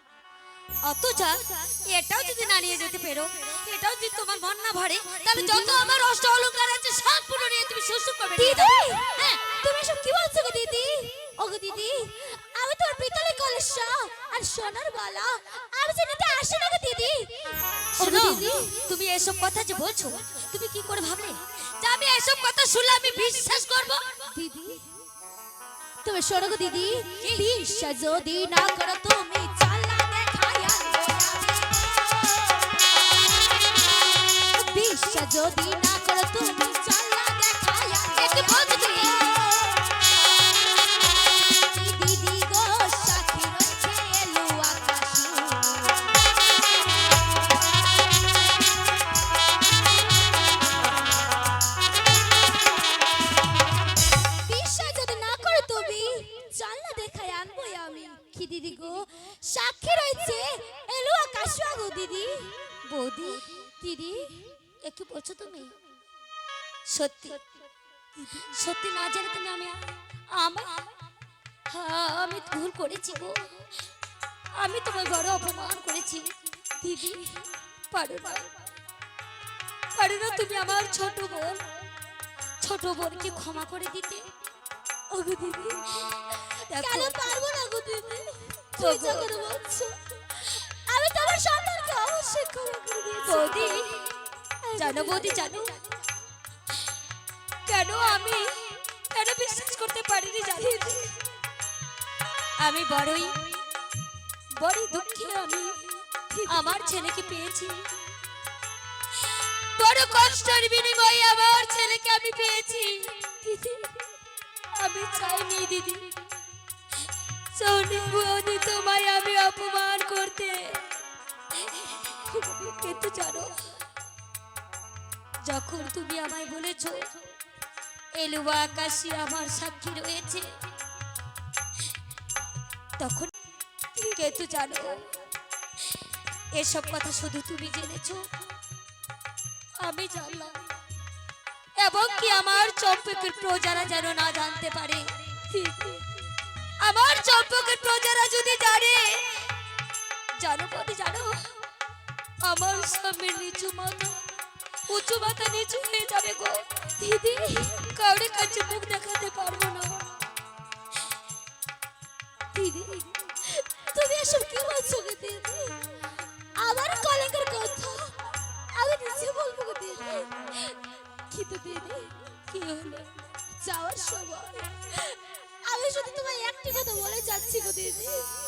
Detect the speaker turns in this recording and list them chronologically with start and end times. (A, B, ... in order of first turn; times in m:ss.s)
0:00.8-0:09.4 A
0:05.3-0:05.9 B
0:08.4-0:18.8 B
0:18.0-0:24.3 A
0:24.3-0:24.9 B
0:26.0-0:32.7 B
0:27.2-0:27.5 A
0:34.5-0:39.8 B
0:38.1-0:39.2 A
0:41.7-0:46.1 B
0:54.4-1:02.6 B
1:02.9-1:03.5 A
1:03.8-1:04.5 B
1:04.8-1:05.7 A
1:06.9-1:07.4 A
1:08.5-1:10.9 A
1:11.7-1:13.5 A
1:14.6-1:16.3 A
1:16.8-1:17.4 B
1:17.9-1:18.5 A
1:19.9-1:21.6 A
1:22.6-1:24.3 A
1:25.1-1:26.2 B
1:26.6-1:27.4 A
1:26.8-1:34.0 B
1:28.8-1:29.4 A
1:33.2-1:34.0 A
1:34.6-1:35.8 B
1:34.8-1:35.8 A
1:37.6-1:41.1 A
1:40.6-1:41.0 B
1:42.6-1:43.4 A
1:44.6-1:45.9 A
1:46.3-1:46.8 B
1:46.5-1:47.9 A
1:49.8-1:53.2 A
1:53.4-1:54.0 B
1:54.7-1:56.1 A
1:57.5-2:01.0 A
2:01.7-2:01.9 A
2:02.6-2:03.7 A
2:05.4-2:07.1 A
2:08.1-2:10.5 A
2:13.0-2:13.3 A
2:14.1-2:15.2 A
2:16.5-2:18.3 A
2:19.8-2:20.6 A
2:21.8-2:25.0 A
2:25.5-2:26.2 B
2:26.8-2:29.5 A
2:30.4-2:31.5 A
2:32.4-2:34.2 A
2:34.9-2:36.6 A
2:37.0-2:37.9 B
2:37.9-2:40.1 A
2:42.5-2:45.8 B
2:46.6-2:50.8 B
2:51.3-2:52.2 B
2:52.5-2:53.2 A
2:53.6-2:58.3 B